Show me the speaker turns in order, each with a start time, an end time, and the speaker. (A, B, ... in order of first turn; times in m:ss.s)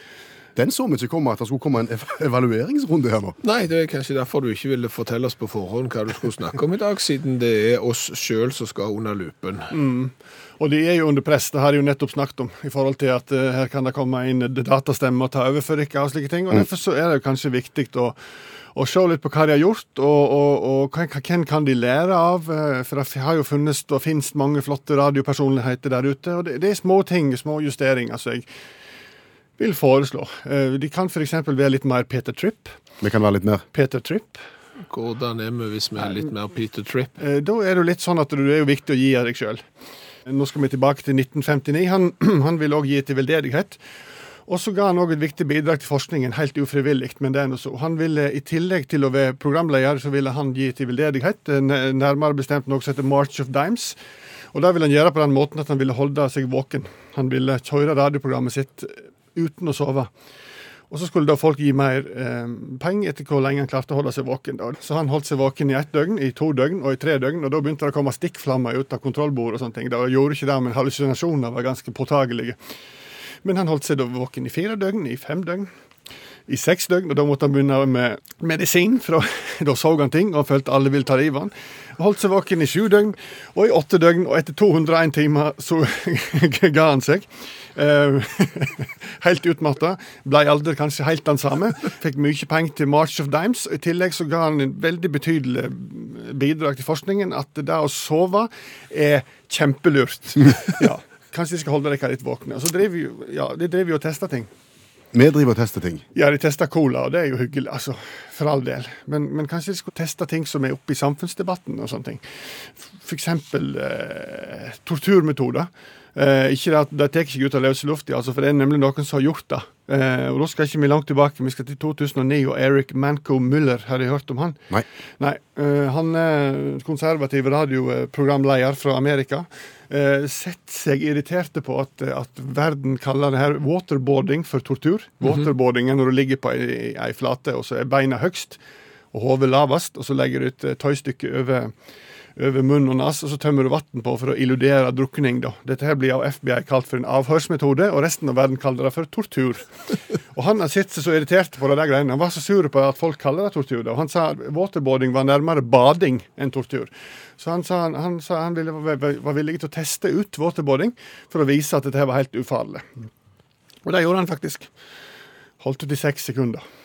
0:00.6-0:03.4 A
0:03.4-0:09.7 B
0:09.7-0:18.2 C
0:18.8-0:28.5 C
0:29.6-0:32.8 C
0:33.0-0:33.6 A
0:33.7-0:34.4 C
0:34.9-0:37.1 B
0:37.2-0:39.6 C
0:40.3-0:43.8 C
0:44.5-0:54.0 C
0:54.5-1:00.1 C
1:00.9-1:12.6 C
1:13.4-1:15.7 C
1:16.5-1:44.5 C
1:45.1-1:46.0 A
1:46.2-1:52.2 C
1:52.8-2:04.6 C
2:05.2-2:18.6 C
2:19.1-2:21.7 C
2:22.4-2:29.7 C
2:30.3-2:43.0 C
2:43.8-2:44.7 C
2:45.6-2:46.6 C